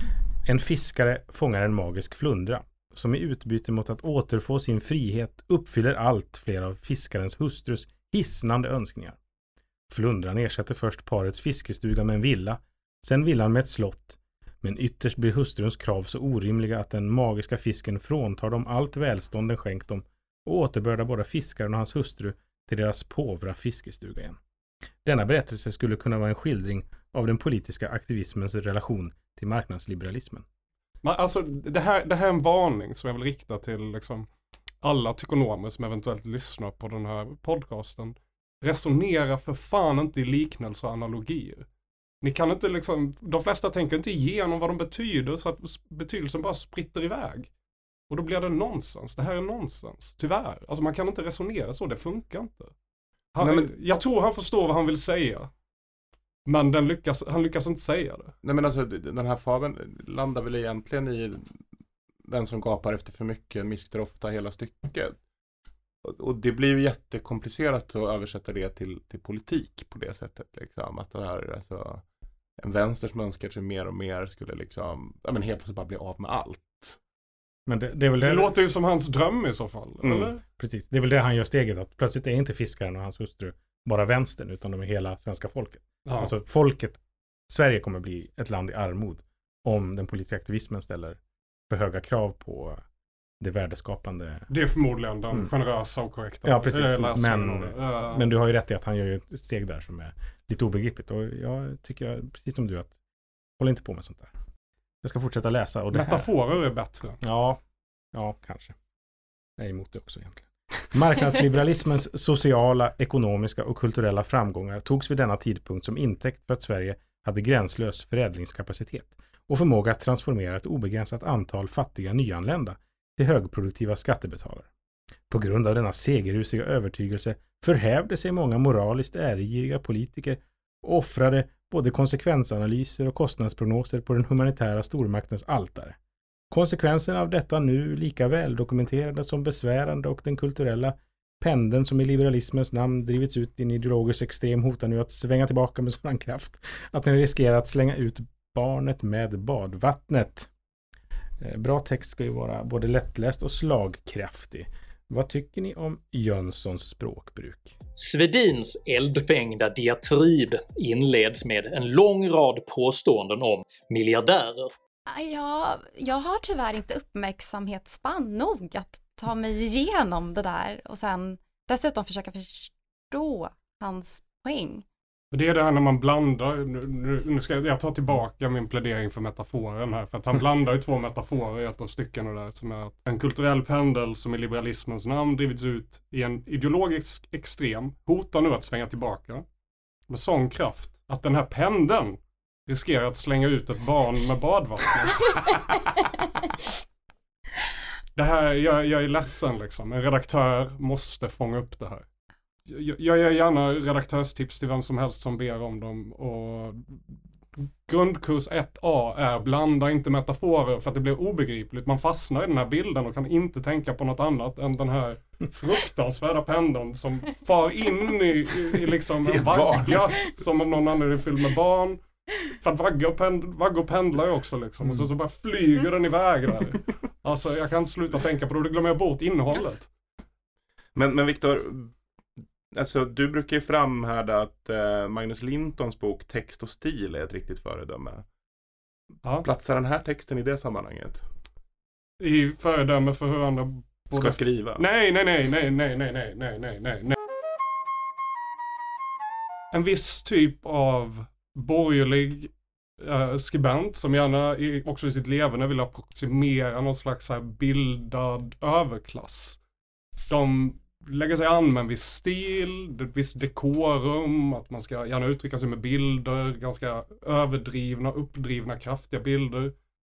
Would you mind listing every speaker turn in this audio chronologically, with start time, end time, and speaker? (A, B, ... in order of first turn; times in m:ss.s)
0:00.4-0:09.2 A
0:09.9-0:24.4 A
0:25.0-0:30.4 A
0:31.0-0:34.3 B
0:34.8-0:41.7 B
0:42.2-0:47.5 B
0:48.1-0:52.7 B
0:53.3-0:55.5 B
0:53.4-0:53.7 C
0:56.5-0:58.4 B
0:58.4-1:01.4 C
1:02.2-1:05.2 C
1:06.0-1:12.0 C
1:12.6-1:17.0 C
1:17.7-1:18.6 A
1:18.2-1:20.4 B
1:20.0-1:20.3 C
1:20.6-1:32.8 A
1:26.1-1:26.3 B
1:33.4-1:34.5 A
1:34.5-1:38.3 B
1:36.4-1:42.9 A
1:43.6-1:44.3 A
1:45.0-1:46.3 A
1:45.9-1:47.2 B
1:47.2-1:47.6 A
1:48.1-1:48.8 A
1:49.6-2:04.7 A
2:05.3-2:16.0 A
2:16.5-2:30.5 A
2:31.4-2:37.8 A
2:38.0-2:44.7 D
2:45.1-2:54.8 E
2:55.3-3:09.4 B
3:10.1-3:15.8 B
3:18.2-3:22.0 B
3:22.7-3:49.9 B
3:39.3-3:40.0 C
3:51.0-3:51.9 C
3:52.7-3:58.2 C
3:59.4-4:01.3 C
4:02.2-4:07.2 B
4:04.1-4:04.8 C
4:09.7-4:19.6 B
4:20.3-4:29.8 B